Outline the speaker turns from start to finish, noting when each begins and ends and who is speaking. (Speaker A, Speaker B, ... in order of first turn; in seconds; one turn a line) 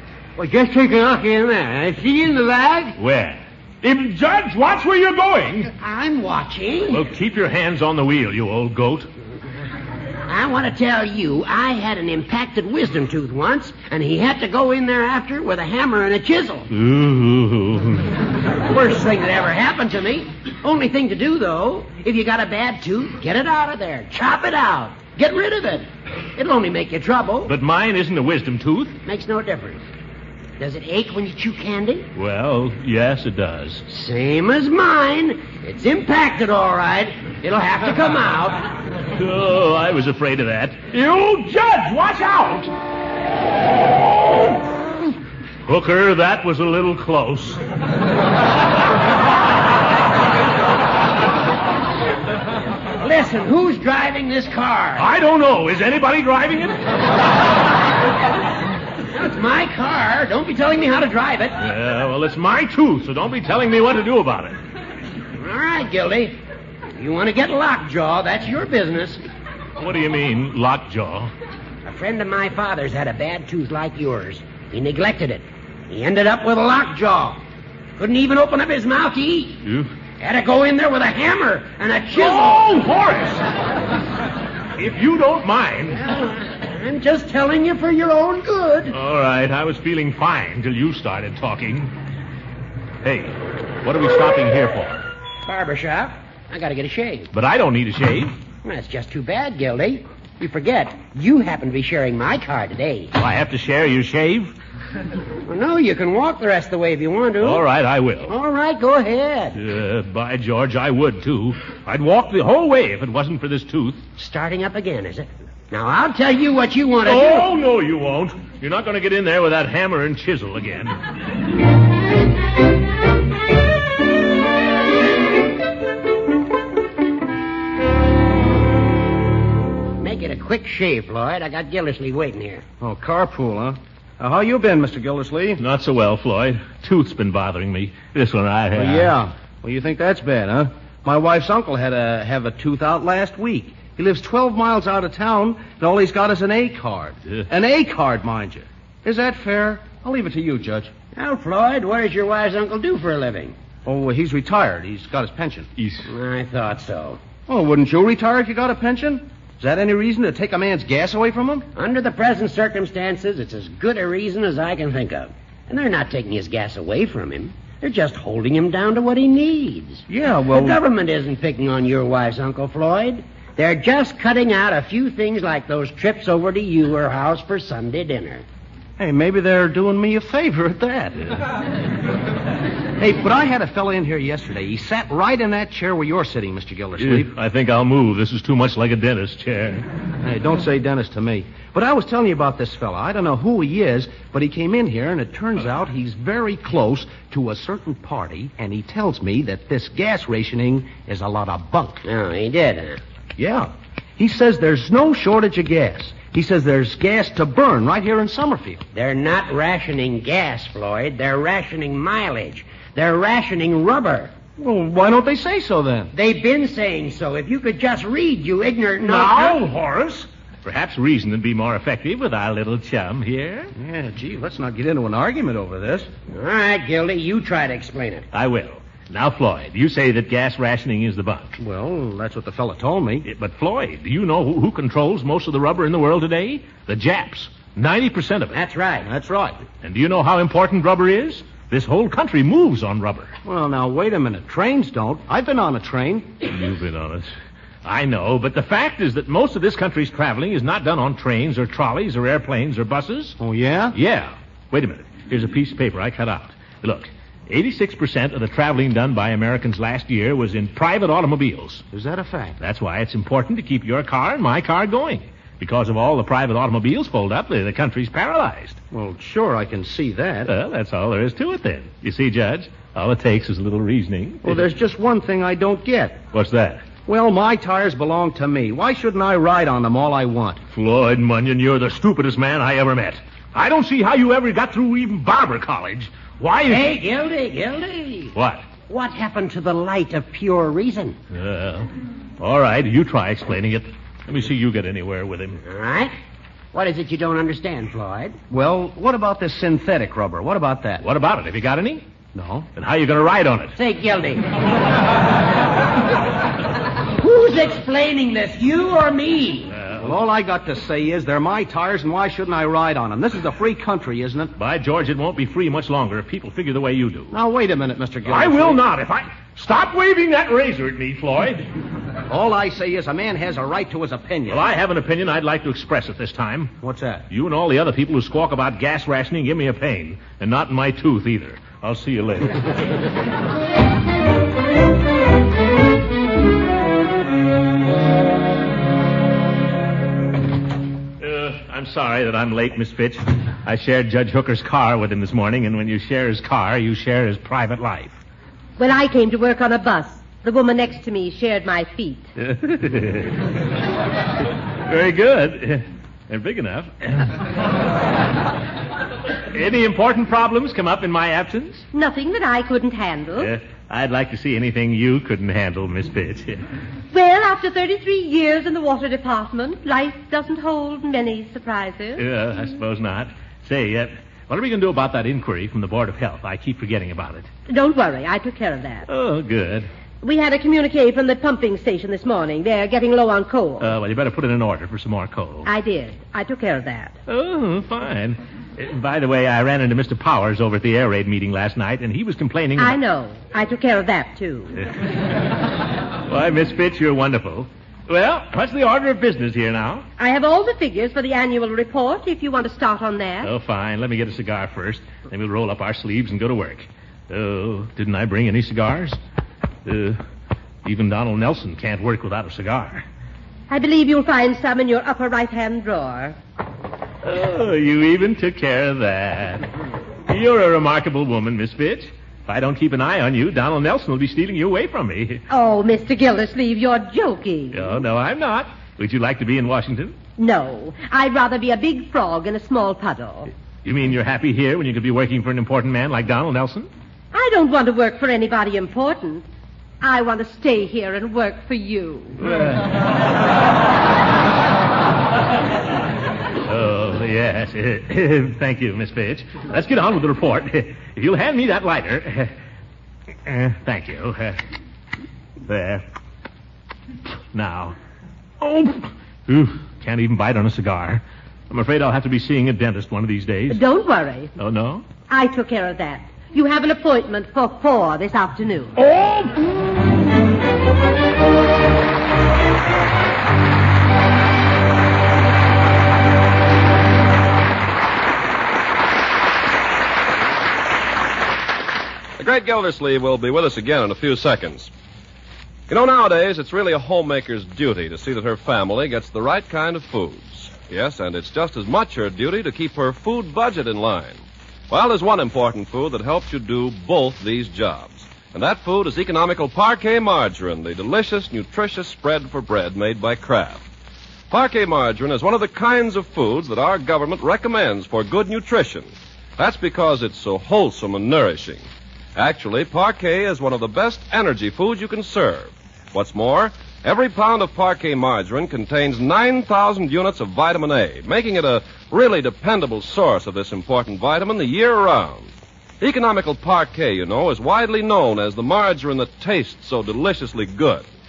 Speaker A: 0.4-3.0
Speaker B: 3.0-5.7
Speaker A: 5.8-7.0
Speaker B: 6.9-9.1
Speaker A: 10.3-16.7
Speaker B: 16.7-18.1
Speaker A: 18.6-27.5
Speaker B: 27.4-29.0
Speaker A: 29.1-29.8
Speaker A: 30.6-32.1
Speaker B: 32.1-33.8
Speaker A: 33.9-38.7
Speaker B: 39.1-42.7
Speaker B: 45.6-47.6
Speaker A: 53.0-55.1
Speaker B: 55.0-56.8
Speaker A: 59.1-61.6
Speaker B: 61.6-64.6
Speaker A: 65.4-66.4
Speaker A: 67.0-69.2
Speaker B: 69.8-71.3
Speaker A: 71.8-77.4
Speaker A: 78.0-79.6
Speaker B: 79.6-79.9
Speaker A: 80.2-82.7
Speaker B: 82.1-83.5
Speaker B: 84.8-86.0
Speaker A: 85.9-88.9
Speaker B: 88.9-91.9
Speaker B: 93.0-95.0
Speaker A: 95.4-97.3
Speaker B: 97.3-98.3
Speaker A: 98.6-103.1
Speaker B: 103.2-104.5
Speaker A: 105.5-107.6
Speaker B: 107.4-108.3
Speaker A: 108.3-109.6
Speaker B: 109.5-114.0
Speaker A: 114.2-117.5
Speaker B: 117.0-120.9
Speaker A: 130.0-132.6
Speaker C: 132.8-135.6
Speaker B: 135.6-139.2
Speaker C: 138.8-150.9
Speaker A: 151.1-153.6
Speaker C: 153.8-155.7
Speaker A: 156.1-157.2
Speaker C: 157.5-161.7
Speaker A: 161.7-178.4
Speaker C: 170.1-170.8
Speaker C: 179.0-181.3
Speaker C: 183.0-187.3
Speaker B: 187.0-189.9
Speaker C: 190.2-202.0
Speaker A: 202.0-203.0
Speaker C: 203.4-208.8
Speaker A: 208.9-214.3
Speaker C: 214.6-216.1
Speaker A: 216.1-219.6
Speaker B: 219.0-223.7
Speaker C: 223.8-226.1
Speaker A: 226.3-228.3
Speaker B: 228.3-231.5
Speaker C: 231.6-233.2
Speaker B: 233.2-238.6
Speaker A: 238.5-239.1
Speaker C: 239.0-239.6
Speaker B: 239.8-243.3
Speaker C: 243.4-246.3
Speaker B: 246.5-247.3
Speaker B: 247.8-253.4
Speaker C: 253.4-253.9
Speaker B: 253.9-261.8
Speaker C: 261.9-262.6
Speaker B: 262.6-268.8
Speaker C: 268.9-270.5
Speaker B: 270.4-274.7
Speaker C: 274.4-276.2
Speaker B: 276.3-276.8
Speaker C: 277.1-280.6
Speaker B: 280.7-286.9
Speaker A: 286.7-288.3
Speaker B: 288.3-288.6
Speaker A: 288.9-291.2
Speaker B: 291.3-295.6
Speaker A: 295.6-296.1
Speaker A: 296.7-298.4
Speaker C: 298.5-301.0
Speaker B: 301.0-302.0
Speaker C: 302.3-302.7
Speaker B: 302.8-303.8
Speaker A: 303.8-304.5
Speaker A: 307.2-309.7
Speaker B: 309.7-310.1
Speaker C: 310.0-314.5
Speaker B: 314.6-317.3
Speaker C: 317.3-318.8
Speaker B: 318.3-321.7
Speaker C: 322.3-324.7
Speaker B: 324.5-326.8
Speaker C: 326.8-327.2
Speaker B: 327.3-332.9
Speaker B: 341.2-348.2
Speaker D: 348.8-352.3
Speaker B: 352.4-353.4
Speaker B: 354.9-357.4
Speaker B: 359.5-361.9
Speaker D: 361.9-363.5
Speaker B: 363.4-366.6
Speaker D: 367.1-372.2
Speaker B: 372.2-377.5
Speaker D: 377.7-379.1
Speaker B: 379.1-379.9
Speaker D: 380.2-383.9
Speaker B: 383.8-385.7
Speaker D: 385.6-387.2
Speaker B: 387.3-393.0
Speaker D: 392.8-394.7
Speaker B: 396.3-400.1
Speaker D: 400.2-403.5
Speaker B: 403.4-409.2
Speaker B: 409.8-410.2
Speaker B: 410.8-413.0
Speaker D: 413.7-416.4
Speaker B: 417.2-419.7
Speaker B: 420.3-425.4
Speaker D: 425.5-427.9
Speaker B: 427.7-430.1
Speaker D: 430.4-433.5
Speaker B: 433.8-436.9
Speaker D: 437.3-439.4
Speaker D: 440.0-442.4
Speaker B: 442.4-442.8
Speaker B: 446.6-452.5
Speaker B: 453.4-454.6
Speaker B: 455.6-456.0
Speaker B: 457.5-457.9
Speaker B: 458.6-463.8
Speaker D: 463.7-464.5
Speaker B: 464.6-465.0
Speaker D: 465.3-469.0
Speaker B: 469.0-469.5
Speaker E: 482.4-484.9
Speaker E: 485.9-503.8
Speaker E: 504.5-511.8
Speaker E: 512.4-531.0